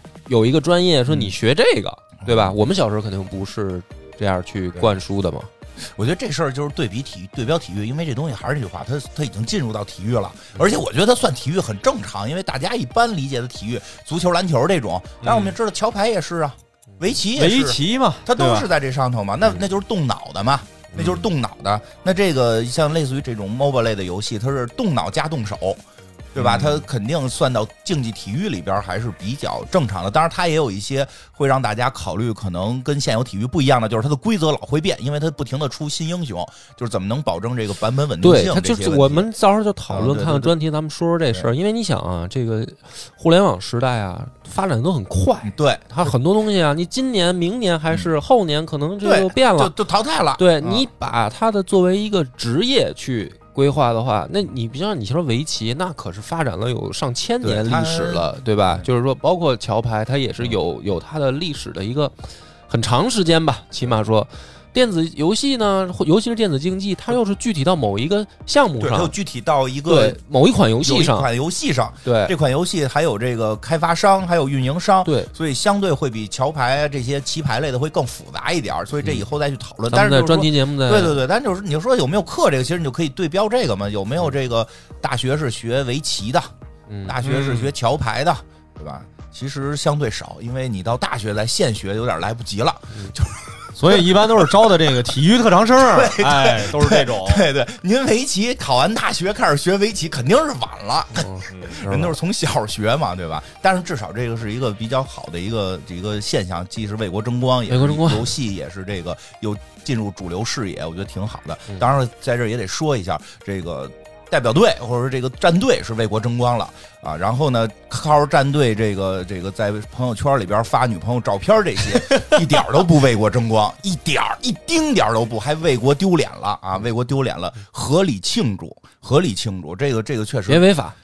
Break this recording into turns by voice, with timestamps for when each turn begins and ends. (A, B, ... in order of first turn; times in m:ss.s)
0:00.2-0:05.5 A
0:02.2-0:02.6 B
0:05.8-0:25.8 B
0:15.2-0:15.6 C
0:17.3-0:18.7 C
0:26.3-0:39.3 B
0:26.4-0:26.8 C
0:38.2-0:49.7 A
0:39.9-0:40.6 B
0:45.4-0:46.1 B
0:49.0-0:50.9 B
0:50.4-1:09.1 A
0:57.4-0:58.9 B
1:08.8-1:10.2 B
1:09.8-1:11.3 A
1:10.8-1:26.5 B
1:12.0-1:12.3 A
1:15.0-1:15.3 A
1:19.9-1:21.2 A
1:26.9-1:27.2 A
1:27.0-1:33.9 B
1:27.2-1:27.7 C
1:33.8-1:37.4 C
1:35.8-2:10.7 B
1:41.1-1:42.2 A
1:41.5-1:41.8 C
1:47.7-1:48.4 A
2:10.5-2:11.0 A